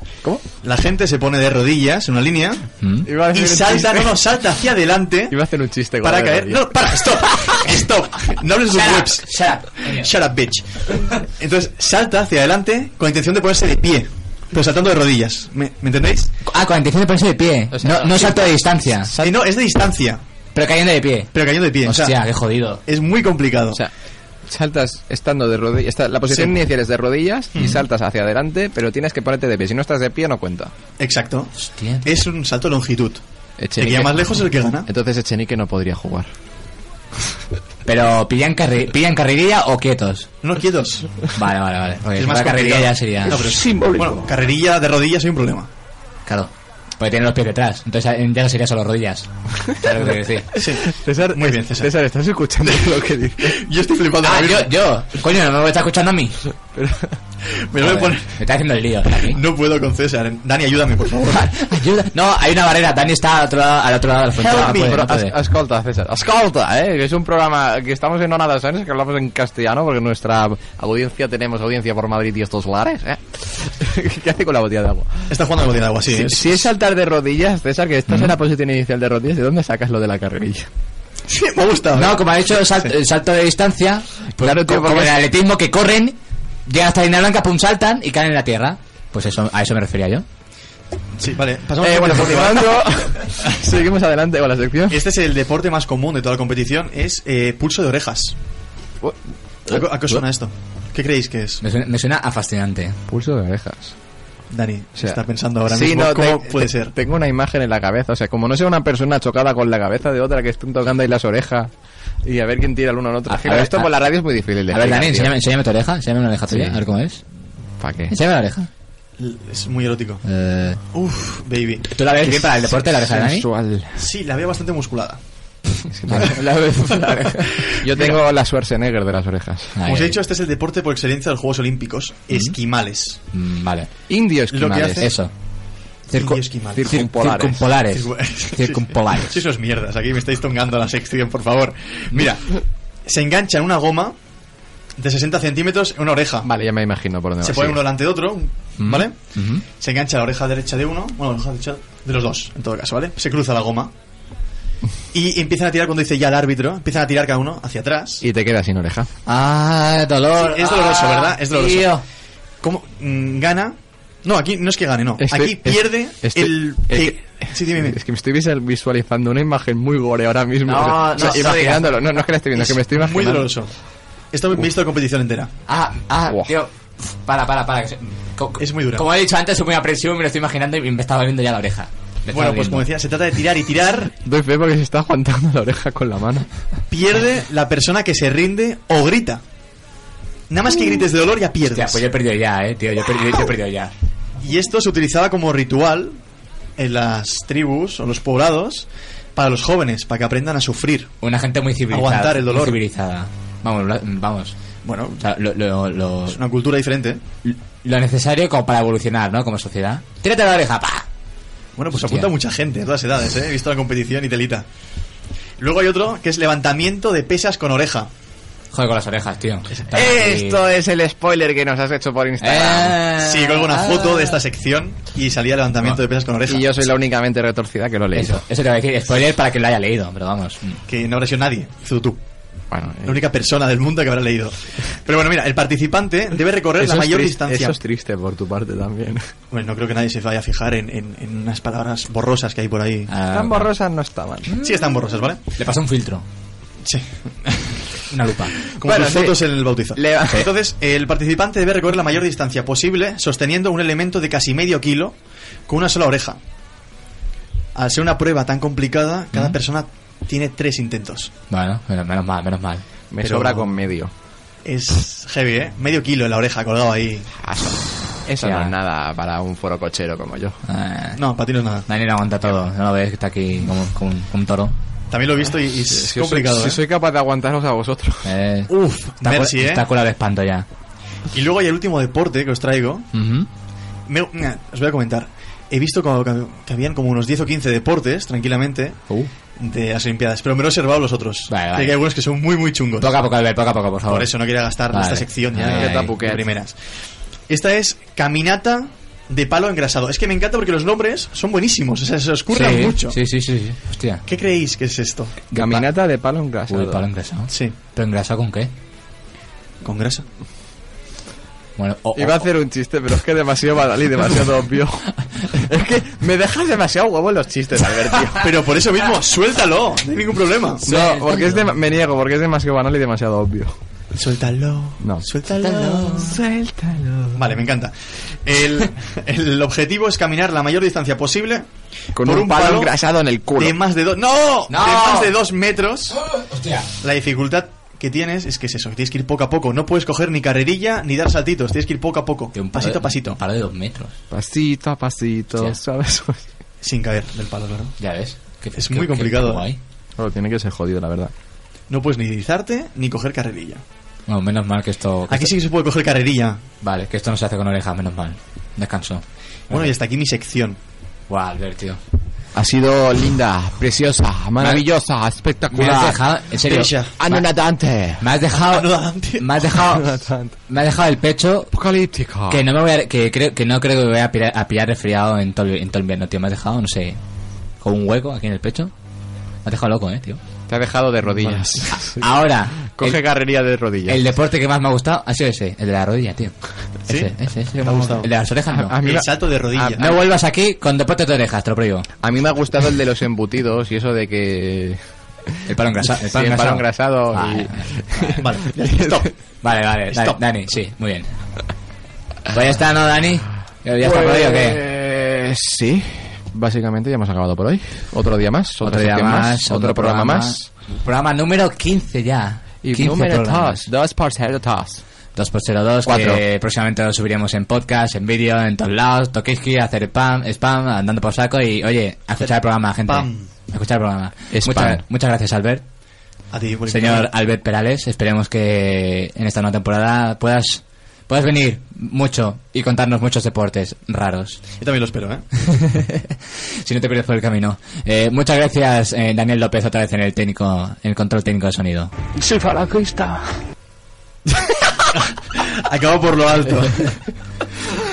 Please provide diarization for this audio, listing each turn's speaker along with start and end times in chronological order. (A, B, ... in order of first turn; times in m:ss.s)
0:00.6-0:05.4 A
0:02.8-0:03.1 B
0:03.0-0:04.2 C
0:05.3-0:07.5 C
0:06.0-0:16.3 A
0:08.7-0:10.1 B
0:16.4-0:19.1 B
0:17.7-0:19.5 C
0:19.2-0:20.2 A
0:20.5-0:22.8 B
0:21.3-0:22.2 A
0:22.8-0:23.8 A
0:24.5-0:30.7 C
0:26.3-0:26.6 A
0:27.5-0:27.8 A
0:31.0-0:33.2 A
0:31.6-0:32.0 B
0:33.6-0:36.3 C
0:33.8-0:34.9 A
0:37.9-0:40.3 B
0:40.4-0:41.3 A
0:41.3-0:43.4 B
0:42.2-0:45.7 A
0:43.3-0:44.3 D
0:46.3-0:50.5 B
0:50.5-0:51.9 A
0:50.6-0:53.6 C
0:53.4-0:54.7 A
0:54.2-0:56.4 B
0:56.7-0:57.2 C
0:57.7-0:58.3 A
0:57.8-0:59.4 B
0:59.2-1:01.5 A
1:01.3-1:05.4 B
1:04.4-1:15.4 C
1:04.4-1:05.1 A
1:15.3-1:16.6 A
1:16.0-1:20.7 C
1:21.3-1:22.9 A
1:22.0-1:26.2 B
1:24.4-1:25.2 C
1:26.7-1:30.2 B
1:31.2-1:33.2 A
1:31.8-1:35.0 C
1:34.9-1:38.4 A
1:39.7-1:41.6 A
1:41.6-1:43.0 B
1:43.1-1:43.9 C
1:44.5-1:46.9 A
1:45.0-1:51.7 C
1:52.2-1:55.4 C
1:53.3-1:53.9 B
1:54.7-1:57.2 B
1:56.5-1:56.8 C
1:57.8-1:58.1 C
1:58.1-1:58.7 B
1:59.2-2:00.2 A
2:00.2-2:00.8 B
2:00.9-2:02.8 A
2:01.9-2:03.5 B
2:03.0-2:04.0 C
2:04.0-2:05.2 A
2:05.9-2:09.8 C
2:07.6-2:08.2 A
2:09.8-2:10.2 B
2:09.8-2:13.2 A
2:13.3-2:13.9 B
2:14.1-2:15.1 C
2:14.5-2:15.2 A
2:15.0-2:15.3 B
2:16.1-2:19.4 B
2:16.2-2:17.0 A
2:16.7-2:17.7 C
2:17.9-2:24.2 A
2:25.0-2:26.5 A
2:26.4-2:27.9 C
2:27.4-2:29.2 A
2:28.8-2:29.6 B
2:29.7-2:33.9 A
2:35.1-2:38.2 A
2:38.2-2:39.1 C
2:39.3-2:42.0 B
2:40.4-2:42.0 A
2:42.6-2:48.0 A
2:45.2-2:53.5 C
2:50.7-2:52.0 B
2:50.8-2:51.8 A
2:52.5-2:53.7 A
2:54.3-2:55.5 A
2:55.7-3:02.9 B
2:58.6-2:59.0 A
3:02.3-3:04.1 A
3:04.2-3:06.5 C
3:06.9-3:09.4 A
3:10.5-3:12.0 A
3:11.6-3:13.9 B
3:14.4-3:16.2 A
3:16.8-3:21.1 A
3:21.2-3:24.6 B
3:21.9-3:22.8 A
3:24.8-3:25.2 A
3:25.2-3:26.4 B
3:26.3-3:27.2 A
3:27.4-3:31.1 B
3:31.8-3:34.6 A
3:31.9-3:32.3 B
3:35.6-3:38.1 A
3:38.7-3:40.6 B
3:39.8-3:40.1 A
3:39.9-3:43.1 C
3:42.4-3:44.4 B
3:43.2-3:46.8 A
3:46.5-3:48.4 C
3:48.1-3:50.8 B
3:50.9-3:52.2 A
3:52.7-3:53.3 C
3:53.0-3:57.8 A
3:56.8-3:59.3 C
3:59.5-4:03.1 A
4:03.1-4:03.7 B
4:03.3-4:04.5 C
4:04.5-4:06.2 B
4:04.6-4:05.4 A
4:06.8-4:07.8 A
4:08.1-4:08.6 B
4:08.8-4:15.2 A
4:08.8-4:10.5 C
4:15.7-4:16.4 A
4:17.8-4:21.3 A
4:21.5-4:22.8 B
4:23.1-4:24.1 C
4:23.2-4:23.7 A
4:24.6-4:27.3 A
4:27.4-4:30.6 C
4:28.4-4:28.7 B
4:30.7-4:31.2 B
4:31.2-4:31.9 A
4:31.9-4:34.7 B
4:35.1-4:36.8 A
4:35.8-4:38.3 C
4:38.2-4:40.7 B
4:38.7-4:39.9 A
4:41.3-4:43.1 A
4:43.1-4:43.5 B
4:44.1-4:49.0 A
4:49.6-4:53.1 A
4:51.5-4:52.0 B
4:53.0-4:54.3 B
4:54.1-4:56.8 A
4:54.9-4:56.1 B
4:55.6-4:56.5 C
4:57.5-5:03.2 A
5:02.5-5:04.2 B
5:04.3-5:05.4 A
5:05.5-5:05.8 B
5:05.5-5:07.1 C
5:06.7-5:08.7 B
5:07.5-5:07.8 A
5:09.8-5:10.2 A
5:11.8-5:12.5 B
5:12.2-5:18.5 C
5:18.4-5:20.9 A
5:20.8-5:23.8 C
5:20.9-5:21.7 B
5:24.1-5:26.2 A
5:25.0-5:25.3 C
5:25.5-5:26.4 B
5:25.9-5:27.5 C
5:27.3-5:27.9 A
5:28.4-5:31.7 A
5:32.1-5:33.8 C
5:32.2-5:32.9 A
5:33.6-5:36.2 A
5:34.7-5:35.3 B
5:36.1-5:36.9 B
5:37.0-5:43.4 A
5:42.5-5:44.1 B
5:44.3-5:46.5 C
5:46.8-5:48.0 A
5:48.0-5:49.8 B
5:48.8-5:49.7 A
5:50.2-5:51.3 C
5:51.9-5:53.8 A
5:54.3-5:55.5 B
5:55.3-5:56.6 A
5:56.8-5:59.9 B
5:59.7-6:00.8 A
6:01.3-6:02.0 B
6:02.5-6:06.2 C
6:04.6-6:04.8 B
6:05.7-6:07.4 B
6:06.6-6:07.2 A
6:07.2-6:08.3 C
6:08.2-6:10.1 B
6:08.5-6:09.8 A
6:09.8-6:10.5 C
6:10.7-6:11.7 B
6:11.7-6:12.6 C
6:12.5-6:17.2 B
6:17.8-6:18.9 B
6:19.6-6:20.4 B
6:20.7-6:22.3 C
6:21.9-6:23.2 B
6:22.9-6:24.2 C
6:24.1-6:29.0 B
6:27.1-6:28.4 A
6:28.8-6:30.2 C
6:29.0-6:30.1 A
6:30.0-6:32.1 B
6:32.2-6:35.0 C
6:35.7-6:38.4 B
6:36.0-6:39.3 C
6:38.4-6:39.3 A
6:39.6-6:41.3 B
6:40.1-6:40.4 A
6:42.5-6:44.8 B
6:44.0-6:50.7 C
6:48.8-6:53.9 B
6:52.8-6:55.0 C
6:55.4-7:05.8 B
6:56.0-6:56.4 C
7:03.0-7:03.5 A
7:04.5-7:05.0 C
7:06.5-7:07.3 A
7:06.9-7:14.6 B
7:14.8-7:15.5 A
7:15.7-7:22.1 B
7:22.4-7:23.5 D
7:25.1-7:27.2 A